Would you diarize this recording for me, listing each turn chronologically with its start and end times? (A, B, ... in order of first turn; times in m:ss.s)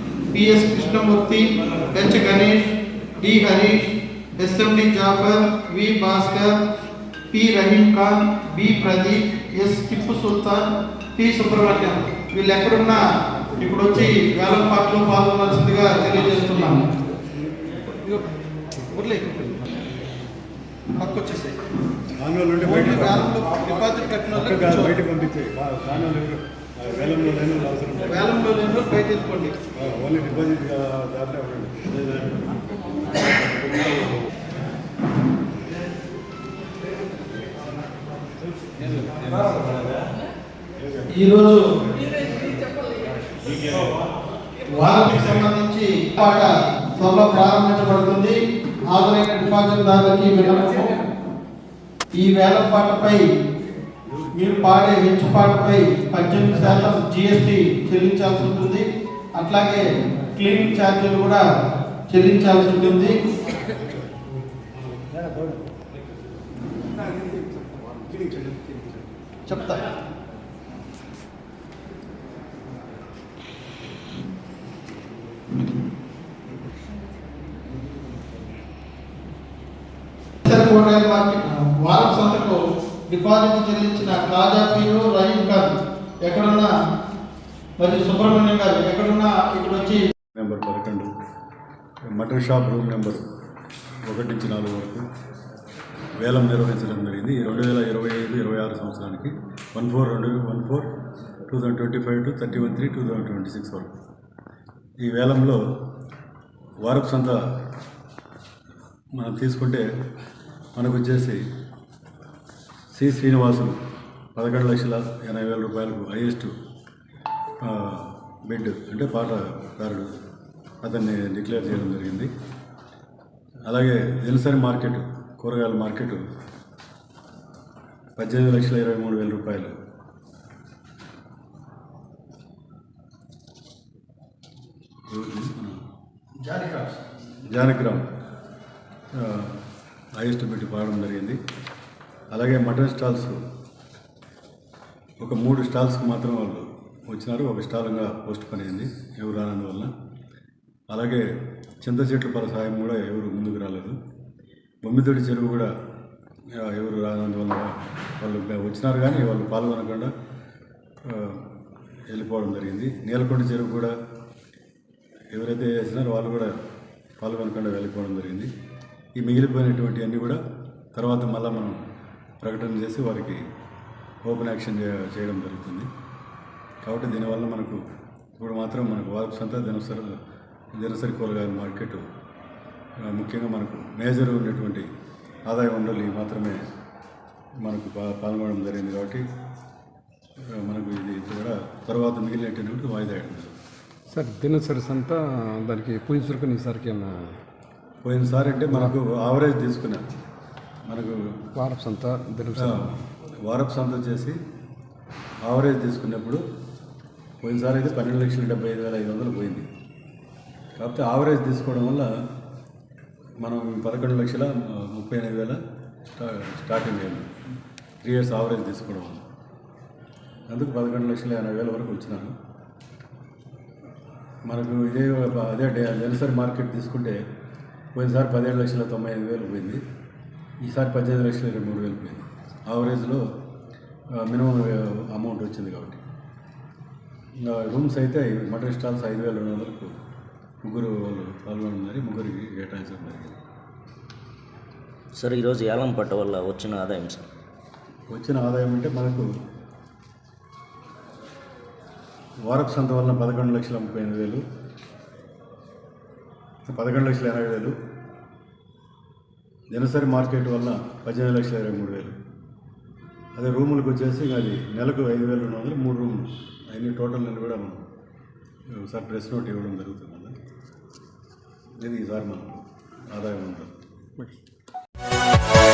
0:00.3-0:06.6 A
0:07.3-0:13.0 A
0:13.6-0:16.9 A
0:18.8-0:19.7 A
0:21.0-0:21.6 A
0:22.2-0:23.4 B
0:22.6-0:24.9 A
0:24.3-0:28.6 B
0:28.1-0:29.6 A
0:29.7-0:33.9 B
0:41.1-0:41.6 A
0:44.7-0:51.0 A
0:52.1-0:53.2 A
0:54.3-1:01.4 A
1:02.1-1:03.2 A
1:07.0-1:09.0 C
1:09.4-1:09.9 A
1:20.4-1:26.7 A
1:27.8-1:30.0 A
1:30.3-1:31.1 B
1:32.1-1:33.2 B
1:34.0-1:35.0 B
1:36.1-1:40.9 B
1:41.5-1:43.9 B
1:45.0-1:45.6 B
1:46.8-1:47.4 B
1:49.2-1:49.8 B
1:50.8-1:51.4 B
1:52.9-1:53.8 B
1:54.3-1:56.5 B
1:57.6-2:00.1 B
2:00.8-2:02.3 B
2:03.7-2:06.2 B
2:08.2-2:09.7 B
2:15.1-2:15.8 B
2:16.4-2:17.0 A
2:17.5-2:18.1 B
2:19.1-2:19.6 B
2:20.2-2:21.4 B
2:22.3-2:23.4 B
2:25.2-2:29.9 B
2:30.9-2:31.3 B
2:31.8-2:34.0 B
2:34.8-2:35.7 B
2:36.5-2:40.1 B
2:41.0-2:41.4 B
2:42.1-2:43.9 B
2:45.3-2:46.5 B
2:47.2-2:48.5 B
2:49.2-2:50.4 B
2:50.9-2:51.8 B
2:52.4-2:53.4 B
2:54.2-2:55.9 B
2:56.8-2:57.8 B
2:58.4-3:00.2 B
3:00.8-3:02.0 B
3:03.0-3:04.9 B
3:05.4-3:06.6 B
3:07.6-3:09.2 B
3:10.5-3:13.6 B
3:14.1-3:17.4 C
3:18.0-3:20.0 B
3:20.9-3:21.5 B
3:21.6-3:22.9 C
3:22.6-3:24.4 B
3:25.4-3:26.4 B
3:27.4-3:29.7 B
3:30.8-3:32.1 B
3:33.4-3:35.6 B
3:36.1-3:37.3 B
3:38.0-3:39.2 B
3:40.5-3:42.3 B
3:44.4-3:47.2 B
3:47.9-3:49.8 B
3:50.6-3:53.3 B
3:54.1-3:56.0 B
3:57.4-3:59.9 B
4:00.6-4:03.4 B
4:05.1-4:07.2 D
4:08.1-4:09.3 B
4:12.4-4:14.4 B
4:16.6-4:17.8 B
4:19.7-4:22.2 B
4:23.4-4:27.8 B
4:28.7-4:30.3 B
4:31.8-4:33.7 B